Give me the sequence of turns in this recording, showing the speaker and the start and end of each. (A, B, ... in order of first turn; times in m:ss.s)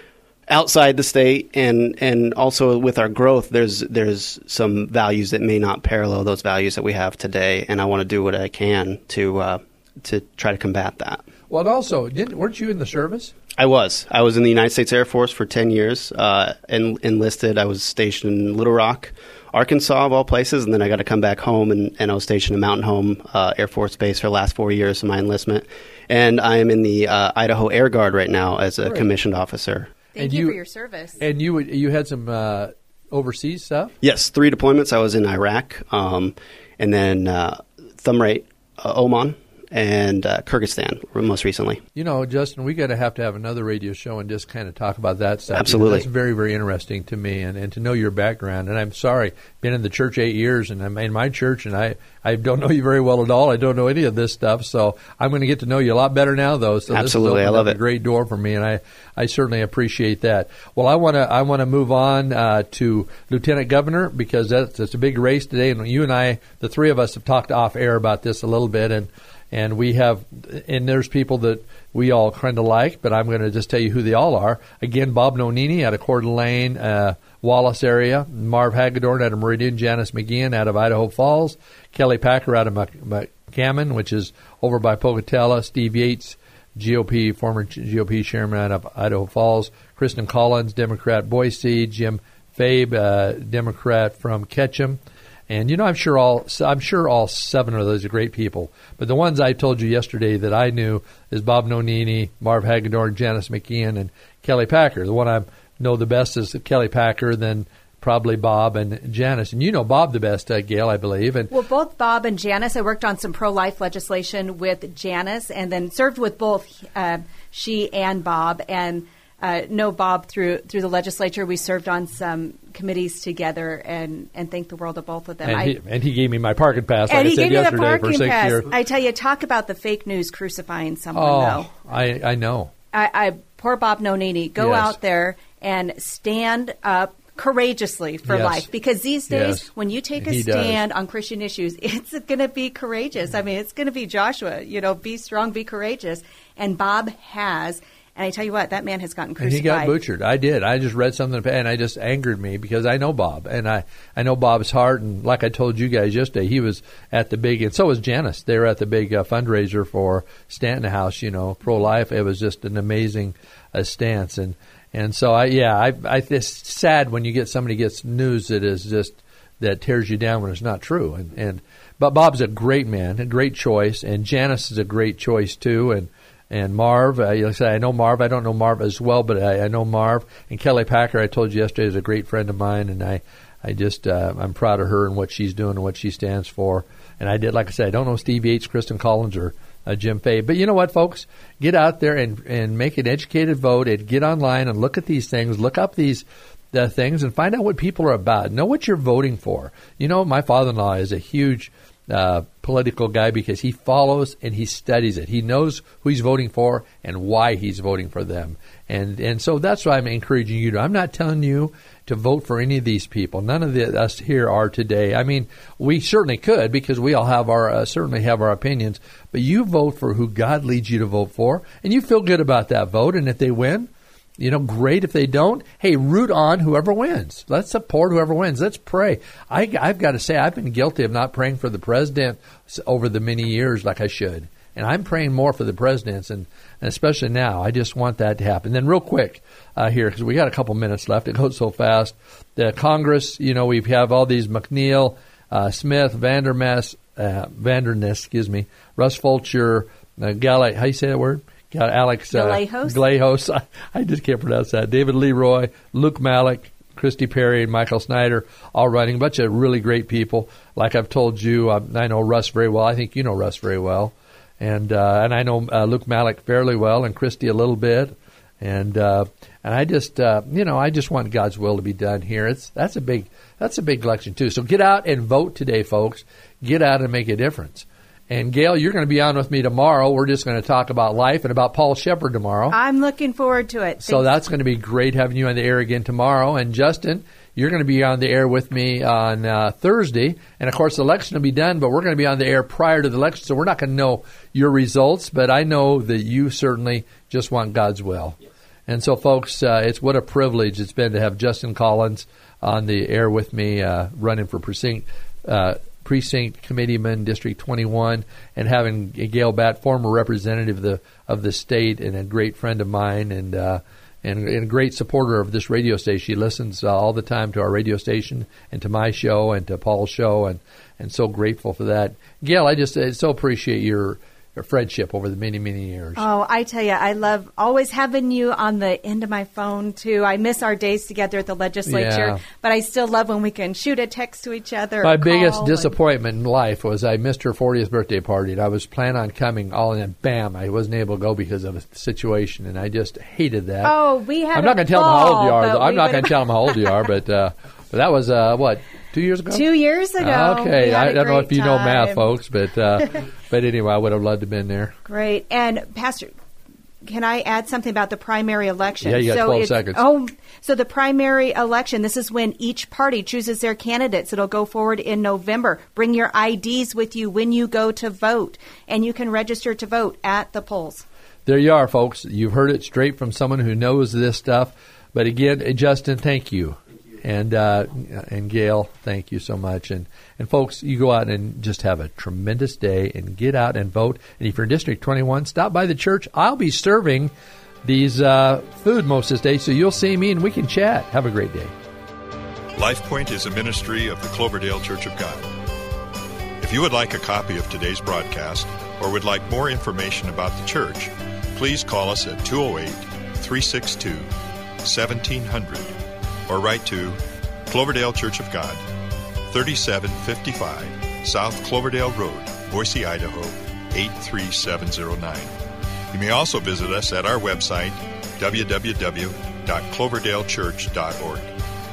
0:00.5-0:11.2 A
0:11.5-0:13.3 B
0:13.6-0:29.9 A
0:30.1-0:31.2 C
0:30.2-0:30.6 B
0:31.2-0:33.9 B
0:34.0-0:41.8 A
0:41.9-1:51.5 B
0:45.5-0:46.0 A
0:56.9-0:57.8 A
1:51.5-2:05.8 C
2:05.4-2:08.7 B
2:07.1-2:11.7 C
2:11.1-2:12.7 B
2:12.9-2:30.0 C
2:14.6-2:15.0 B
2:18.2-2:18.7 B
2:19.3-2:20.8 B
2:29.4-4:42.8 B
4:12.3-4:13.0 C
4:42.7-4:44.3 C
4:44.0-4:58.4 B
4:58.9-5:26.2 B
5:26.2-5:35.9 C
5:31.8-5:32.4 B
5:35.0-5:44.0 B
5:43.8-5:46.8 C
5:44.5-5:49.7 B
5:49.5-5:52.3 C
5:50.2-5:54.9 B
5:55.0-5:56.3 C
5:57.0-6:11.0 C
5:59.0-6:00.0 B
6:11.4-6:27.3 B
6:27.8-6:31.7 B
6:32.8-6:35.5 D
6:36.6-6:44.3 D
6:44.8-6:45.9 D
6:46.5-6:48.8 D
6:49.5-6:55.5 D
6:56.1-7:01.5 D